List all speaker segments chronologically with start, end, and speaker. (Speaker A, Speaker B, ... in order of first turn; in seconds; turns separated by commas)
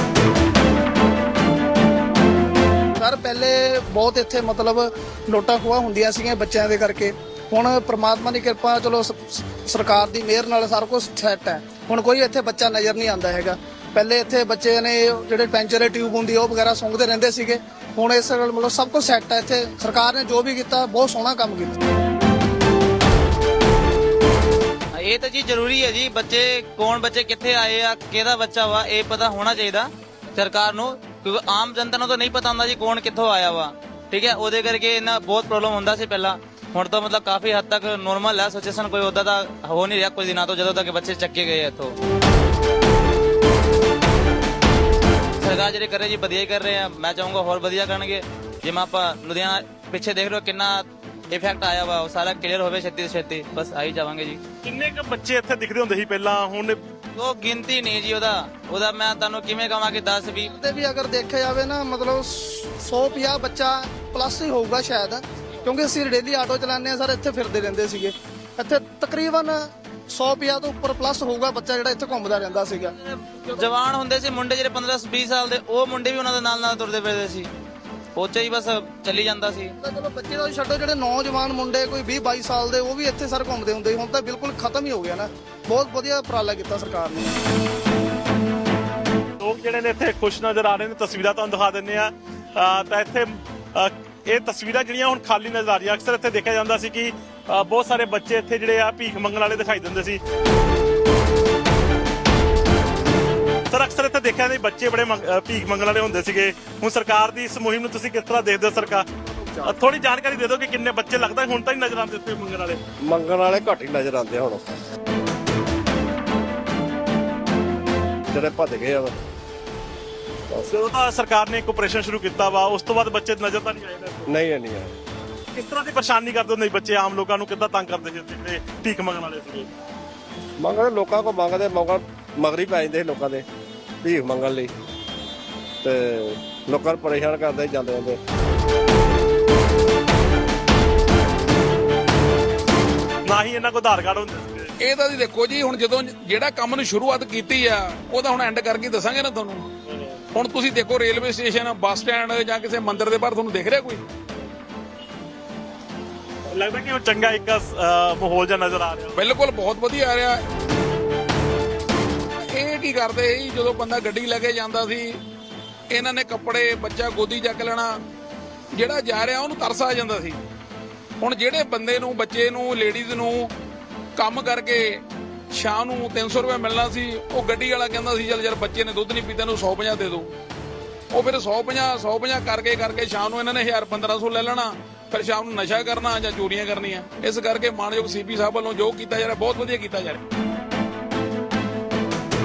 Speaker A: 3.0-21.8, Speaker B: 24.9-42.0, Speaker B: 45.4-54.4, Speaker C: 54.6-56.8, Speaker B: 57.1-60.5, Speaker A: 60.5-72.9, Speaker B: 73.3-77.5, Speaker B: 78.2-79.7, Speaker A: 79.8-87.3, Speaker C: 89.4-100.2, Speaker C: 103.7-109.1, Speaker C: 109.6-112.8, Speaker D: 113.0-114.6, Speaker D: 118.3-119.2, Speaker C: 120.6-124.3, Speaker D: 124.3-125.0, Speaker C: 125.5-129.7, Speaker D: 130.6-133.4, Speaker D: 134.0-134.7, Speaker D: 135.8-138.2, Speaker C: 143.2-144.7, Speaker E: 144.8-149.7, Speaker E: 150.3-154.0, Speaker C: 156.5-159.2, Speaker E: 159.2-160.4, Speaker E: 162.5-165.2, Speaker E: 165.9-168.0, Speaker E: 168.7-170.4, Speaker E: 171.2-173.5, Speaker E: 174.2-180.3, Speaker E: 181.1-190.2